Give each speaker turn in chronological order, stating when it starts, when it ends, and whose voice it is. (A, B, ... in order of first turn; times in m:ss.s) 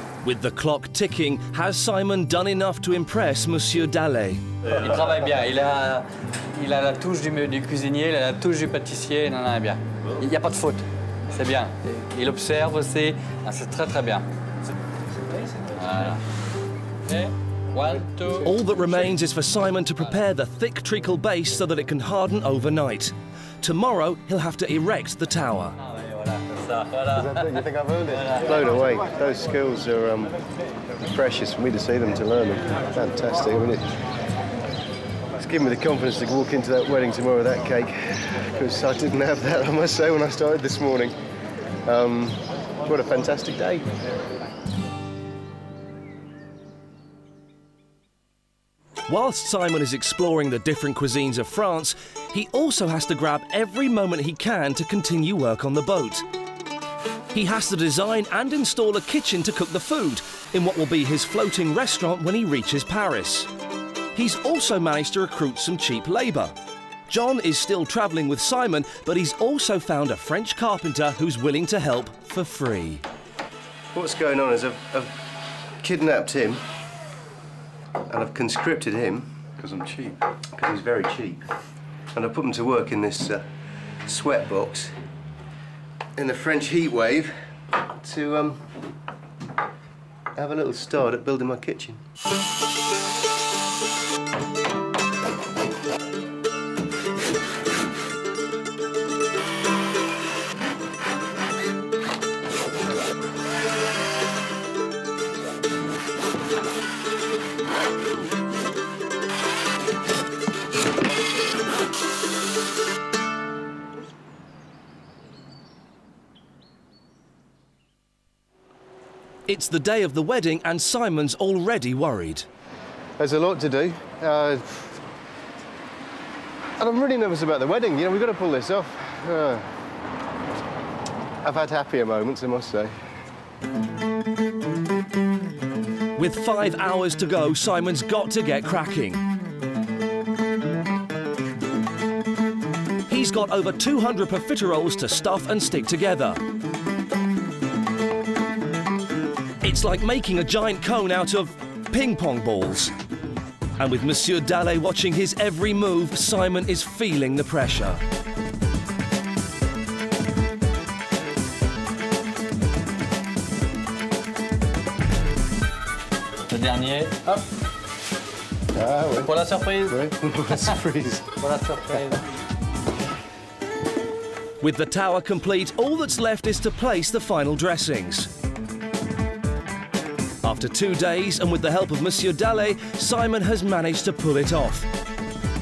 0:00.2-0:04.4 A
0:04.7-0:14.2 B
0:15.7-0:16.2 B
0:17.1-0:18.5 B
0:18.2-0:19.1 C
0:18.4-0:25.8 A
0:25.8-0:28.7 B
0:27.1-0:30.3 C
0:31.0-0:33.9 C
0:35.4-0:41.2 C
0:41.9-0:43.9 C
0:49.1-0:56.2 A
0:57.3-1:03.5 A
1:04.2-1:06.5 A
1:07.1-1:13.0 A
1:13.9-1:15.1 C
1:15.8-1:16.6 C
1:18.1-1:21.4 C
1:22.1-1:23.4 C
1:24.0-1:24.9 C
1:26.2-1:28.6 C
1:30.4-1:32.0 C
1:59.5-2:02.5 A
2:03.2-2:05.0 C
2:06.8-2:09.7 C
2:11.4-2:12.9 C
2:16.2-2:19.2 A
2:23.1-2:26.4 A
2:29.6-2:32.9 A
2:33.8-2:38.0 A
2:46.5-2:47.4 B
2:48.7-2:51.4 C
2:49.3-2:50.0 B
2:51.4-2:52.2 B
2:54.6-2:58.3 A
3:00.4-3:04.9 A